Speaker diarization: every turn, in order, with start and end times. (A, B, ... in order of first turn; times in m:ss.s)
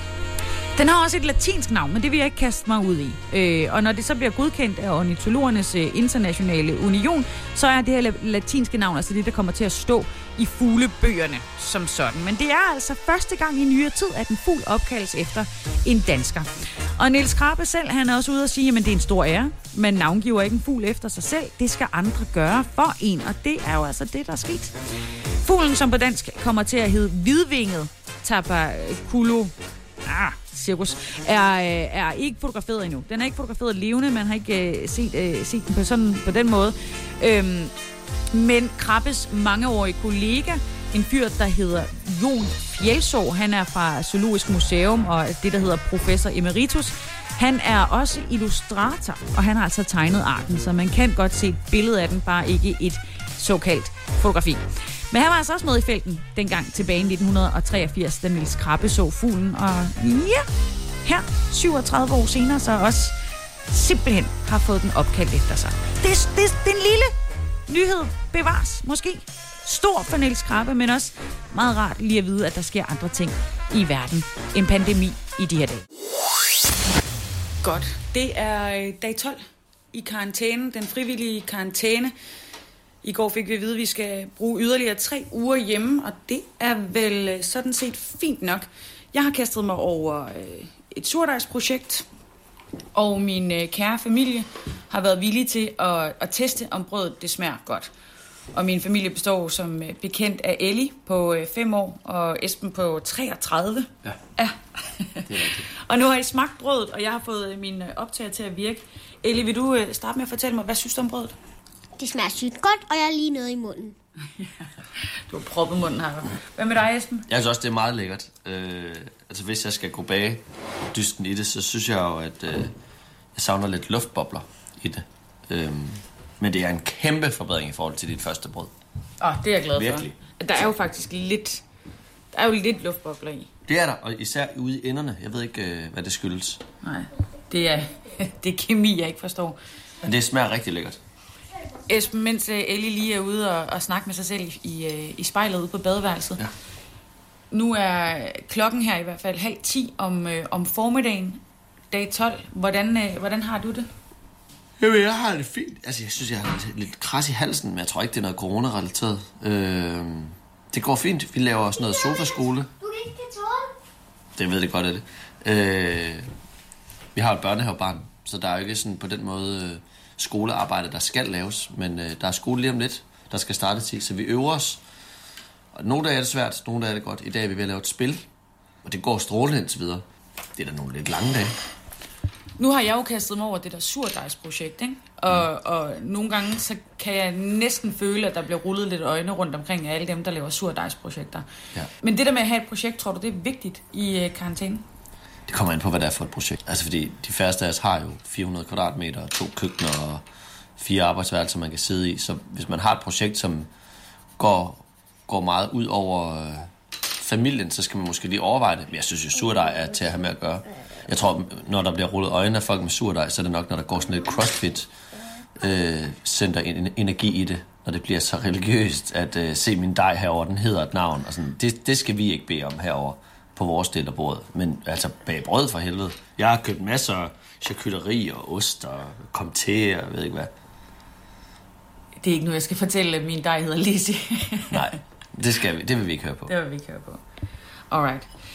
0:00.8-0:24.7 A
0:25.4-0:29.5 A
0:30.0-0:37.7 A
0:38.3-1:00.5 A
1:01.0-1:03.1 A
1:03.7-1:07.1 A
1:07.7-1:15.8 A
1:17.6-1:19.4 A
1:19.9-1:22.1 A
1:23.0-1:32.1 A
1:32.9-1:37.9 A
1:38.5-1:51.4 A
1:45.3-1:45.6 B
1:52.0-1:54.0 C
1:55.3-1:57.3 A
1:57.3-2:02.7 B
2:03.4-2:08.7 B
2:09.2-2:11.6 A
2:09.8-2:10.1 B
2:12.3-2:13.5 A
2:13.7-2:16.6 B
2:16.8-2:19.6 A
2:20.0-2:21.0 B
2:21.9-2:26.4 A
2:27.5-2:33.9 A
2:34.8-2:42.7 B
2:41.8-2:43.7 C
2:44.4-2:46.3 B
2:47.1-2:54.8 B
2:55.8-2:58.2 B
2:58.8-3:00.0 B
3:00.6-3:01.5 B
3:02.6-3:11.4 A
3:12.0-3:14.8 A
3:15.5-3:20.2 B
3:20.8-3:23.7 B
3:24.4-3:34.9 B
3:35.6-3:50.5 B
3:52.2-3:54.9 A
3:54.7-3:56.5 B
3:56.5-3:57.2 A
3:57.9-3:58.3 A